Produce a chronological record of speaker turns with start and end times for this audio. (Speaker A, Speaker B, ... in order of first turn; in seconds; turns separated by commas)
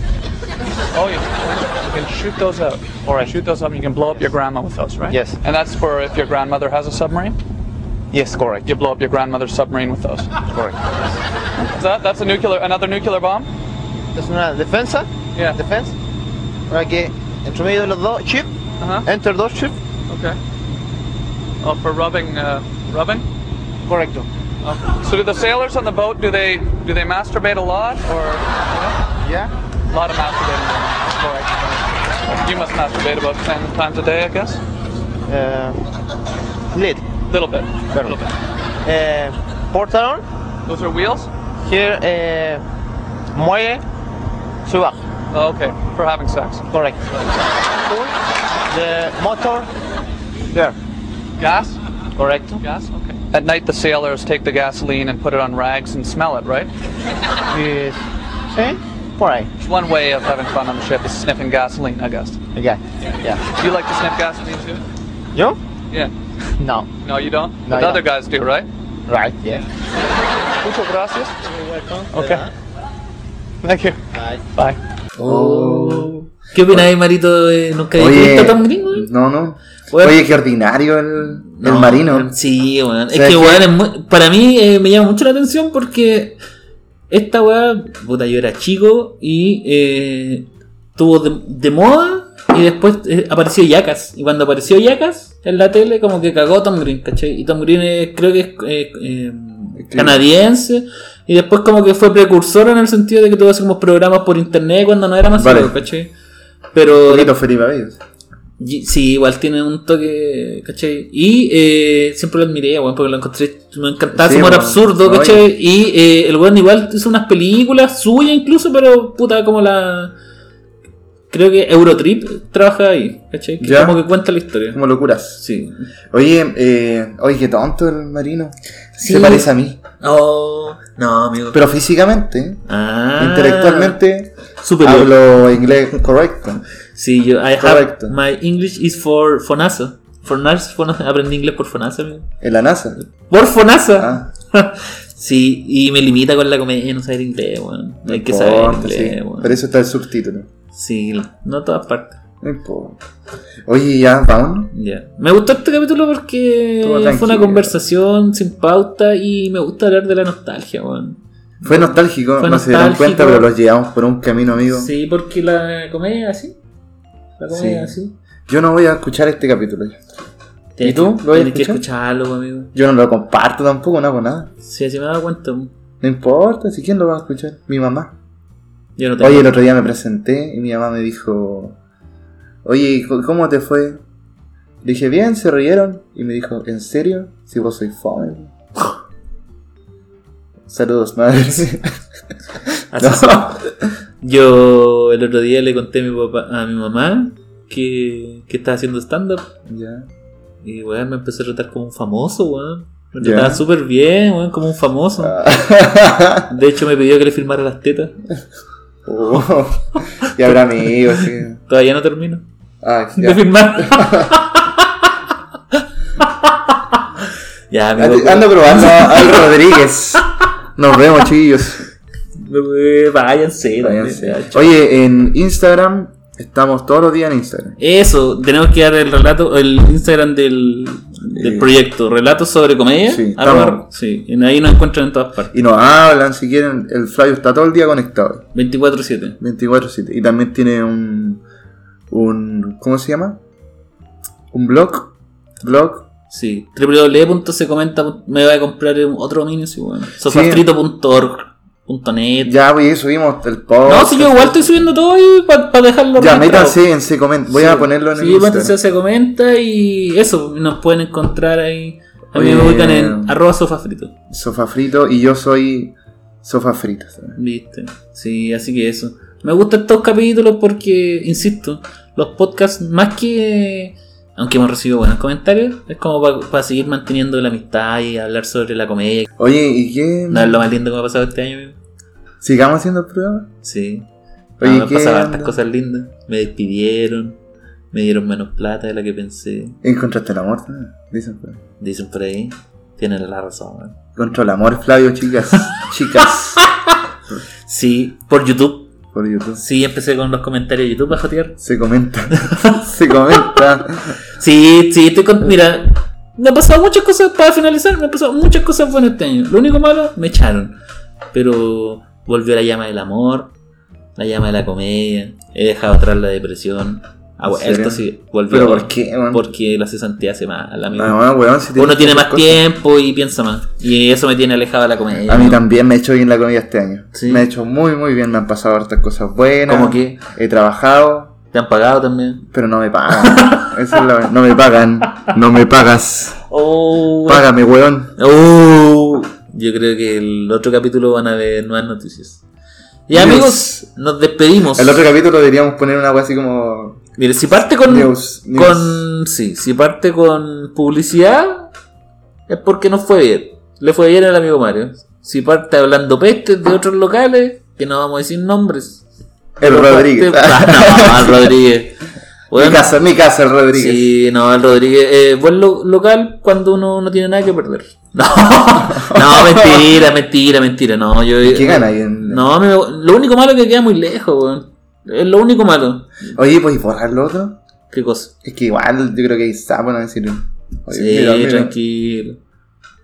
Speaker A: 0.9-7.4, Speaker B: 3.0-3.4, Speaker B: 5.1-5.4, Speaker B: 8.1-8.7, Speaker A: 8.7-10.4, Speaker B: 10.5-10.8, Speaker A: 11.6-13.5, Speaker B: 14.2-15.9, Speaker B: 16.7-18.5, Speaker B: 19.1-19.8, Speaker A: 20.1-20.4, Speaker A: 21.6-23.2, Speaker B: 23.9-24.3, Speaker A: 24.6-28.9, Speaker B: 29.2-29.5, Speaker A: 29.9-34.6, Speaker B: 35.3-35.8, Speaker B: 36.7-37.0, Speaker A: 37.3-38.3, Speaker B: 37.9-38.2, Speaker B: 38.9-40.2, Speaker A: 40.7-41.3, Speaker B: 41.6-42.6, Speaker B: 43.3-43.8, Speaker B: 44.7-45.0, Speaker A: 45.3-46.6, Speaker B: 46.7-47.2, Speaker B: 47.9-48.1, Speaker B: 48.7-49.7, Speaker A: 51.4-51.8, Speaker B: 52.2-52.6, Speaker A: 52.6-56.7, Speaker B: 57.5-58.0, Speaker B: 58.5-59.5, Speaker A: 59.6-62.4, Speaker B: 62.5-63.4, Speaker A: 63.0-64.8, Speaker B: 65.3-65.6, Speaker B: 66.6-66.9, Speaker A: 67.0-68.7, Speaker B: 67.7-68.0, Speaker B: 69.1-69.7, Speaker A: 70.6-71.4, Speaker B: 71.4-72.5, Speaker A: 72.1-72.5, Speaker B: 73.7-74.5, Speaker C: 75.2-76.9, Speaker D: 75.2-79.1, Speaker C: 78.0-82.3, Speaker D: 79.9-80.2, Speaker D: 81.3-86.4, Speaker C: 83.1-83.7, Speaker D: 87.1-106.1, Speaker C: 99.8-100.2, Speaker C: 105.4-105.8, Speaker D: 106.7-107.3, Speaker C: 106.9-108.0, Speaker D: 108.6-120.1, Speaker C: 114.2-115.5, Speaker D: 121.3-124.8, Speaker C: 123.6-124.0, Speaker C: 124.7-125.4, Speaker D: 125.4-125.8, Speaker C: 126.1-129.8, Speaker D: 129.0-131.6, Speaker C: 131.5-132.6, Speaker D: 132.7-134.0, Speaker C: 133.2-136.6, Speaker D: 134.6-135.2, Speaker D: 136.9-142.3, Speaker C: 137.6-138.2, Speaker C: 142.4-143.0, Speaker D: 143.3-149.6, Speaker C: 144.0-144.2, Speaker C: 148.1-150.5, Speaker D: 150.7-152.2, Speaker C: 152.4-153.0, Speaker C: 153.7-154.7, Speaker D: 154.7-163.5, Speaker C: 156.8-157.8, Speaker C: 161.7-164.9, Speaker D: 164.7-166.6, Speaker D: 167.4-168.2, Speaker C: 167.5-167.9, Speaker C: 168.5-170.0, Speaker D: 170.8-172.7, Speaker C: 170.8-171.8, Speaker C: 172.8-174.5, Speaker D: 174.6-175.7, Speaker C: 176.0-178.1, Speaker D: 179.0-179.6, Speaker C: 179.2-181.8, Speaker C: 182.6-184.0, Speaker C: 184.8-188.5, Speaker C: 190.7-191.9, Speaker D: 192.9-193.6, Speaker C: 192.9-193.9, Speaker D: 194.2-199.5, Speaker C: 199.7-200.1, Speaker D: 200.6-205.4, Speaker C: 203.2-203.6, Speaker C: 205.2-206.5, Speaker D: 206.5-208.2, Speaker C: 209.1-211.6, Speaker D: 211.6-212.4, Speaker C: 212.8-214.4, Speaker D: 213.2-215.1, Speaker D: 215.7-217.1, Speaker D: 217.7-219.5, Speaker C: 218.0-220.2, Speaker C: 220.8-221.9, Speaker D: 222.4-224.8, Speaker C: 223.8-227.8, Speaker D: 227.8-235.6, Speaker C: 231.3-231.7, Speaker C: 233.1-233.8, Speaker C: 235.5-238.5, Speaker D: 238.5-239.4, Speaker C: 239.4-241.4, Speaker C: 242.1-243.4, Speaker C: 244.5-246.1, Speaker D: 246.3-252.6, Speaker C: 250.2-250.7, Speaker C: 252.4-254.9, Speaker D: 253.8-256.8, Speaker C: 256.2-258.8, Speaker D: 257.5-264.1, Speaker C: 262.3-263.4, Speaker C: 264.3-267.4, Speaker D: 267.4-279.3, Speaker C: 279.4-280.6, Speaker D: 280.3-281.8, Speaker C: 282.4-283.5, Speaker D: 283.6-284.1, Speaker C: 284.6-285.6, Speaker D: 284.6-287.4, Speaker D: 287.9-289.8, Speaker C: 289.8-291.6, Speaker D: 291.8-294.0, Speaker C: 294.2-296.6, Speaker D: 296.6-297.0, Speaker D: 297.6-298.9, Speaker C: 299.1-299.6, Speaker D: 299.6-301.6, Speaker C: 301.6-304.2, Speaker D: 302.5-303.6, Speaker D: 304.4-310.8, Speaker D: 311.3-313.5, Speaker D: 314.2-321.2, Speaker C: 317.5-319.5, Speaker C: 320.9-322.6, Speaker D: 321.8-325.6, Speaker C: 325.3-331.4, Speaker D: 327.1-327.5, Speaker D: 329.7-330.2, Speaker D: 331.5-332.4, Speaker C: 332.4-336.4, Speaker D: 333.3-333.7, Speaker D: 336.5-337.5, Speaker C: 337.3-338.1, Speaker D: 338.2-342.4, Speaker D: 343.1-345.0, Speaker C: 343.1-343.9, Speaker C: 344.8-347.0, Speaker D: 347.2-351.7, Speaker C: 347.8-349.1, Speaker D: 352.5-359.1, Speaker C: 359.6-361.5, Speaker D: 359.6-363.0, Speaker C: 362.5-364.1, Speaker D: 363.7-376.2, Speaker C: 368.8-370.0, Speaker C: 371.4-372.5, Speaker C: 376.3-377.6, Speaker D: 377.9-378.3, Speaker C: 378.4-381.7, Speaker D: 380.9-382.4